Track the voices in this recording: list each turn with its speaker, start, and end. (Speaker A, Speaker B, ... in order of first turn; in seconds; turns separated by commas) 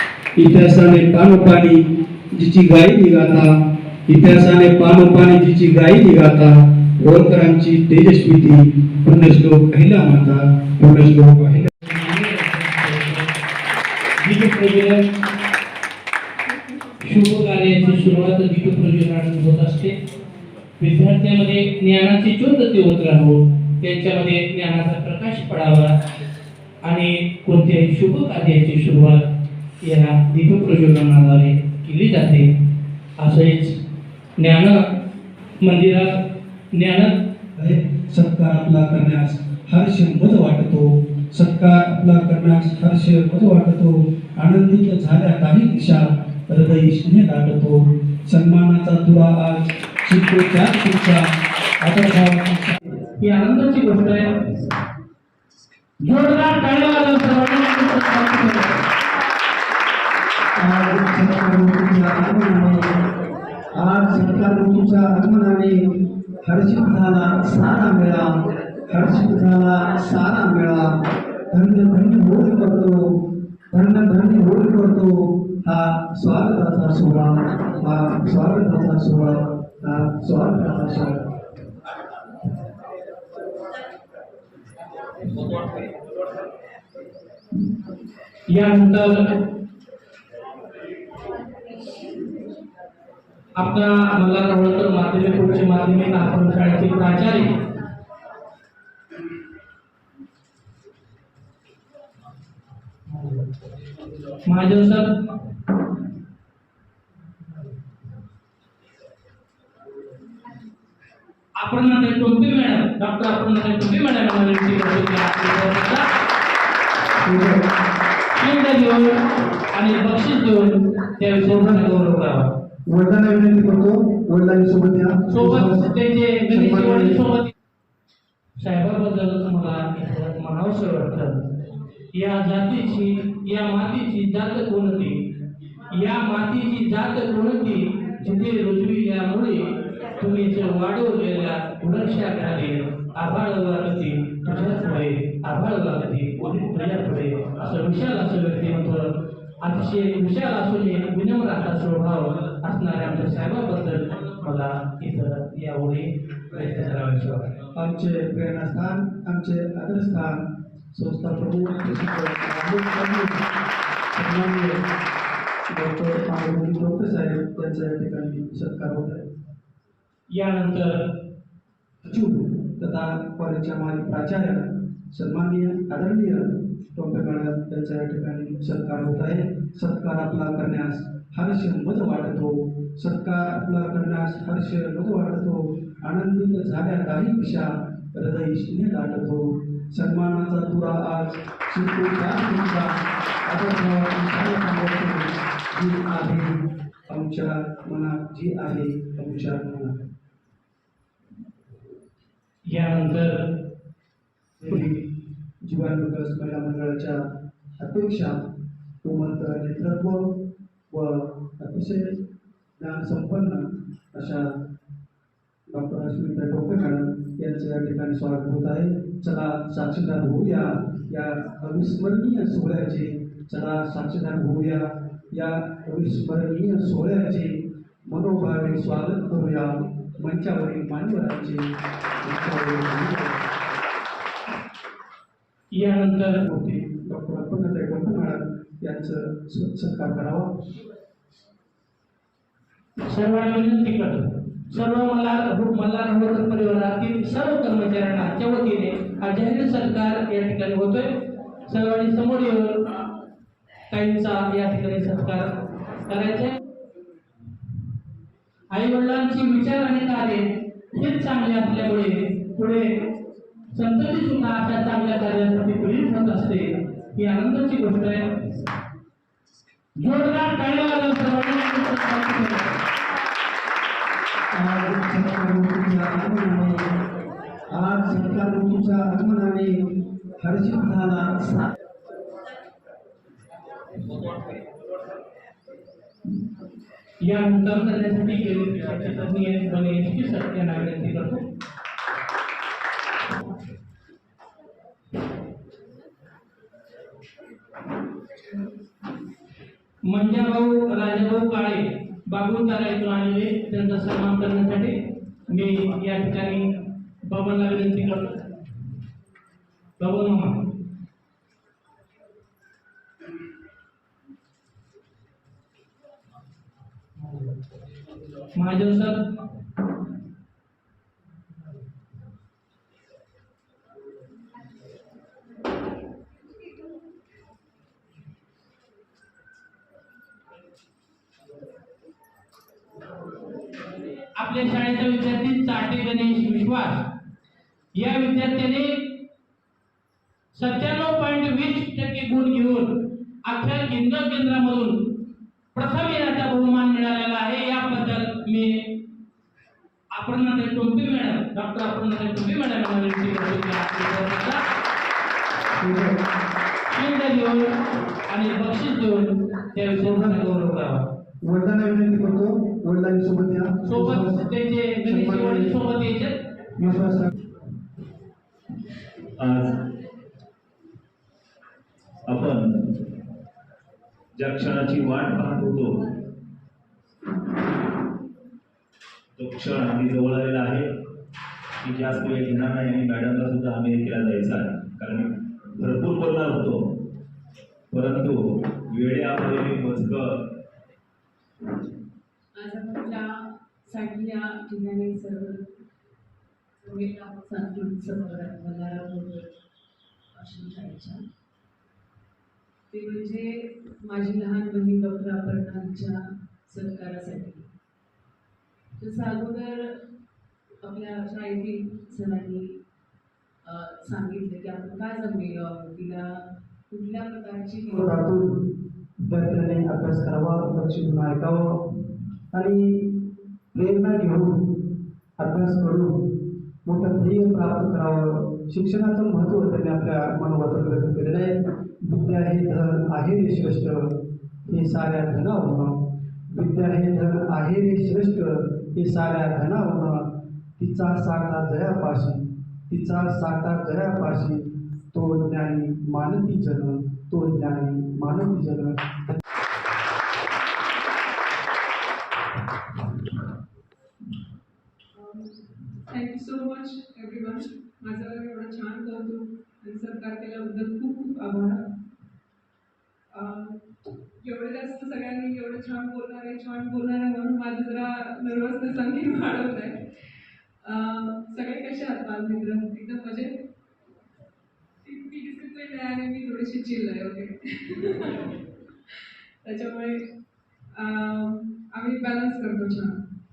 Speaker A: 0.3-11.8, Speaker B: 11.8-13.3, Speaker B: 14.2-15.0, Speaker B: 17.0-19.9, Speaker B: 20.8-25.9, Speaker B: 26.8-29.2, Speaker B: 29.8-32.5, Speaker B: 33.2-33.7, Speaker B: 34.4-34.8, Speaker B: 35.6-36.1, Speaker B: 36.7-37.2, Speaker A: 37.5-51.3, Speaker A: 51.8-53.0, Speaker B: 53.2-54.3, Speaker B: 56.0-58.8, Speaker A: 60.6-62.8, Speaker A: 63.8-65.8, Speaker A: 66.4-68.3, Speaker A: 68.9-70.9, Speaker A: 71.5-81.3, Speaker B: 88.5-89.2, Speaker B: 93.6-97.5, Speaker B: 103.1-103.5, Speaker B: 104.5-105.1, Speaker B: 111.6-116.0, Speaker A: 117.2-117.6, Speaker B: 118.3-119.2, Speaker B: 119.7-122.5, Speaker A: 121.4-121.9, Speaker A: 122.9-125.9, Speaker B: 125.3-127.5, Speaker A: 126.5-127.2, Speaker B: 128.6-131.4, Speaker B: 132.1-135.2, Speaker B: 135.9-157.5, Speaker A: 157.7-160.3, Speaker A: 160.9-163.4, Speaker A: 164.1-164.8, Speaker A: 165.7-169.2, Speaker B: 170.3-171.0, Speaker A: 172.0-200.0, Speaker B: 202.7-203.4, Speaker A: 204.6-205.1, Speaker A: 205.6-207.2, Speaker A: 207.8-208.4, Speaker A: 209.0-210.4, Speaker A: 210.9-212.1, Speaker A: 212.8-214.5, Speaker A: 215.7-231.7, Speaker A: 232.2-233.6, Speaker B: 235.8-236.4, Speaker A: 236.4-240.5, Speaker B: 243.0-251.1, Speaker B: 251.7-252.8, Speaker B: 253.9-255.5, Speaker B: 256.1-256.5, Speaker B: 258.7-262.9, Speaker B: 263.7-268.5, Speaker B: 270.0-272.7, Speaker A: 274.5-276.8, Speaker A: 277.7-279.8, Speaker A: 280.4-281.7, Speaker B: 287.2-291.4, Speaker B: 300.1-304.9, Speaker B: 305.5-306.6, Speaker B: 307.3-308.4, Speaker B: 310.0-310.6, Speaker B: 318.5-319.2, Speaker B: 334.4-337.0, Speaker B: 337.9-339.1, Speaker B: 340.5-345.1, Speaker B: 345.7-348.9, Speaker B: 350.1-354.6, Speaker A: 355.8-356.2, Speaker B: 356.9-357.7, Speaker B: 358.3-361.0, Speaker A: 360.0-360.4, Speaker A: 361.4-365.8, Speaker B: 363.8-366.3, Speaker A: 366.8-367.3, Speaker C: 369.4-369.8, Speaker C: 372.3-373.1, Speaker C: 374.4-376.1, Speaker C: 379.4-380.9, Speaker C: 381.8-386.8, Speaker C: 387.9-390.4, Speaker D: 392.6-395.7, Speaker D: 396.8-399.5, Speaker D: 400.3-401.2, Speaker D: 402.9-407.7, Speaker D: 409.0-410.0, Speaker D: 410.8-412.8, Speaker D: 413.6-418.2, Speaker A: 417.9-418.7, Speaker A: 419.2-421.8, Speaker A: 422.5-423.2, Speaker A: 423.7-424.9, Speaker A: 425.4-449.4, Speaker E: 455.1-461.9, Speaker E: 463.3-463.9, Speaker E: 464.4-470.0, Speaker E: 470.8-473.5, Speaker E: 475.0-480.2, Speaker E: 480.9-483.2